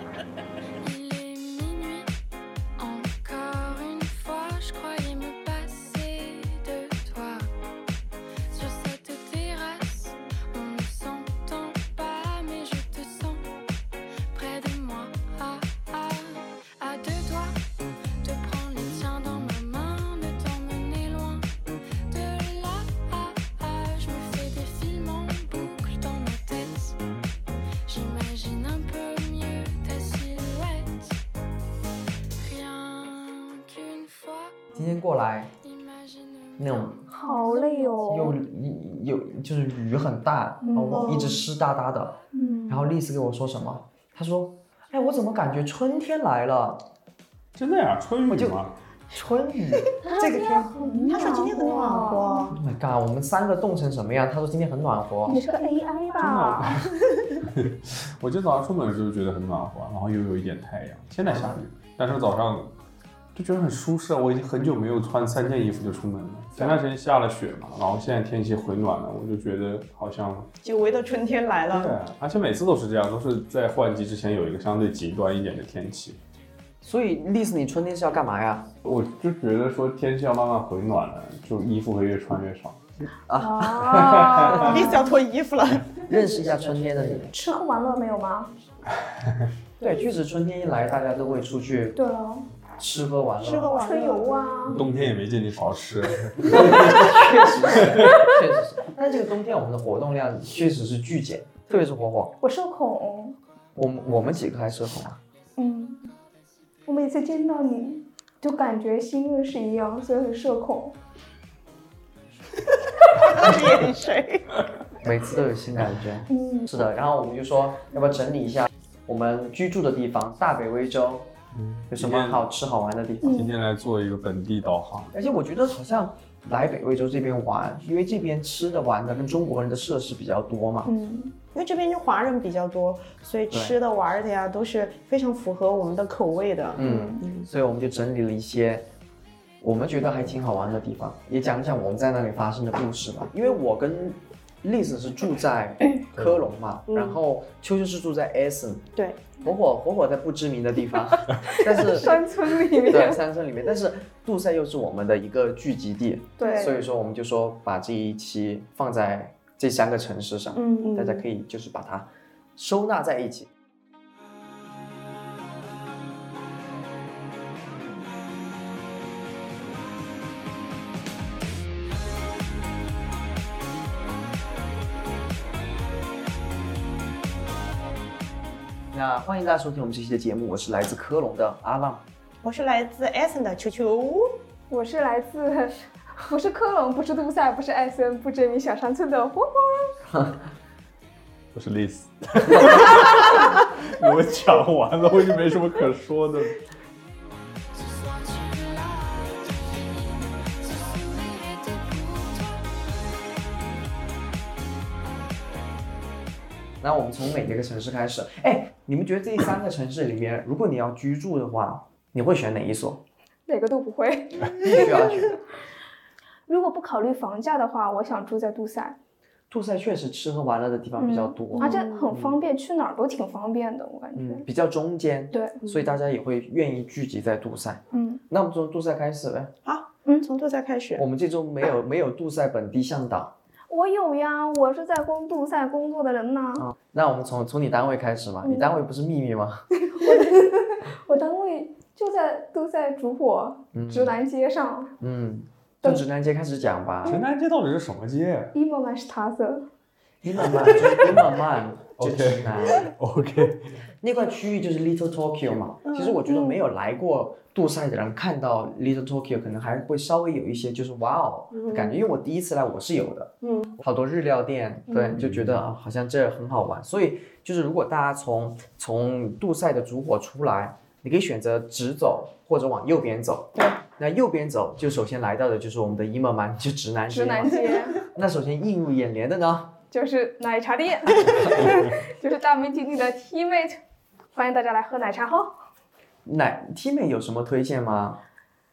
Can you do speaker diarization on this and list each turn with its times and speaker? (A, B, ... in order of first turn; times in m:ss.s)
0:00.8-0:02.1 A
0:02.8-0:07.5 A
0:08.5-0:13.5 A
0:14.3-0:27.0 A
0:27.9-0:31.2 A
0:32.4-0:34.6 A
0:34.7-0:35.5 B
0:35.6-0:38.2 A
0:36.6-0:37.3 B
0:37.1-0:38.3 C
0:38.0-0:46.8 B
0:40.6-0:41.4 C
0:40.9-0:41.3 D
0:42.3-0:42.9 C
0:47.5-0:48.8 E
0:48.3-0:50.7 B
0:50.0-0:52.5 C
0:50.0-0:52.6 D
0:52.5-0:55.4 B
0:55.2-0:56.8 C
0:55.7-0:56.1 A
0:56.2-1:02.7 E
1:01.2-1:01.6 B
1:03.3-1:10.5 E
1:10.6-1:12.0 D
1:11.7-1:16.2 E
1:16.8-1:18.7 B
1:18.8-1:22.8 E
1:23.1-1:24.9 B
1:23.4-1:25.1 C
1:23.9-1:24.7 E
1:24.6-1:26.0 D
1:26.0-1:27.3 B
1:27.2-1:28.5 C
1:29.8-1:32.0 B
1:31.9-1:32.5 C
1:32.8-1:33.8 B
1:33.4-1:34.7 D
1:33.6-1:34.8 C
1:34.7-1:38.3 E
1:36.4-1:42.4 B
1:42.4-1:43.4 C
1:43.7-1:45.2 B
1:45.6-1:46.1 C
1:46.8-1:51.0 C
1:53.2-1:54.5 D
1:53.4-1:53.7 B
1:55.0-2:01.3 B
1:56.3-1:56.7 C
2:01.5-2:02.4 E
2:01.9-2:03.4 B
2:03.2-2:03.5 C
2:03.2-2:05.1 E
2:05.1-2:10.9 B
2:10.8-2:11.3 C
2:11.5-2:17.5 D
2:13.5-2:13.8 B
2:16.8-2:18.9 B
2:16.8-2:17.2 C
2:19.6-2:28.9 B
2:26.1-2:26.5 E
2:26.9-2:27.2 D
2:29.0-2:29.2 D
2:29.4-2:43.5 B
2:31.4-2:33.2 C
2:36.4-2:36.8 C
2:36.4-2:36.8 D
2:40.6-2:41.2 D
2:40.6-2:40.9 C
2:58.9-3:02.0 B
3:02.4-3:04.4 D
3:04.7-3:10.0 C
3:10.0-3:10.5 B
3:11.5-3:16.6 E
3:12.5-3:13.0 B
3:17.7-3:22.9 A
3:26.8-3:33.0 B
3:33.5-3:35.1 C
3:34.5-3:35.4 B
3:36.5-3:39.0 C
3:39.5-3:42.4 B
3:41.0-3:44.4 C
3:41.5-3:42.1 D
3:44.1-3:49.5 B
3:45.3-3:45.6 C
3:45.6-3:45.9 D
3:47.9-3:48.2 C
3:49.6-3:51.0 D
3:51.0-3:53.3 B
3:53.7-3:56.7 C
3:56.6-3:59.7 B
3:58.4-3:58.8 C
3:59.7-4:04.9 C
4:03.7-4:04.2 B
4:05.0-4:07.2 B
4:07.0-4:08.5 E
4:08.5-4:09.6 C
4:10.2-4:12.9 B
4:10.4-4:11.1 E
4:12.0-4:13.8 E
4:14.0-4:39.8 B
4:15.8-4:16.3 D
4:16.3-4:16.5 C
4:21.5-4:22.0 D
4:23.4-4:23.7 D
4:24.9-4:25.2 C
4:25.2-4:25.6 E
4:37.1-4:38.1 C
4:39.9-4:43.8 C
4:41.3-4:41.7 B
4:44.3-4:45.6 C
4:46.2-4:48.2 B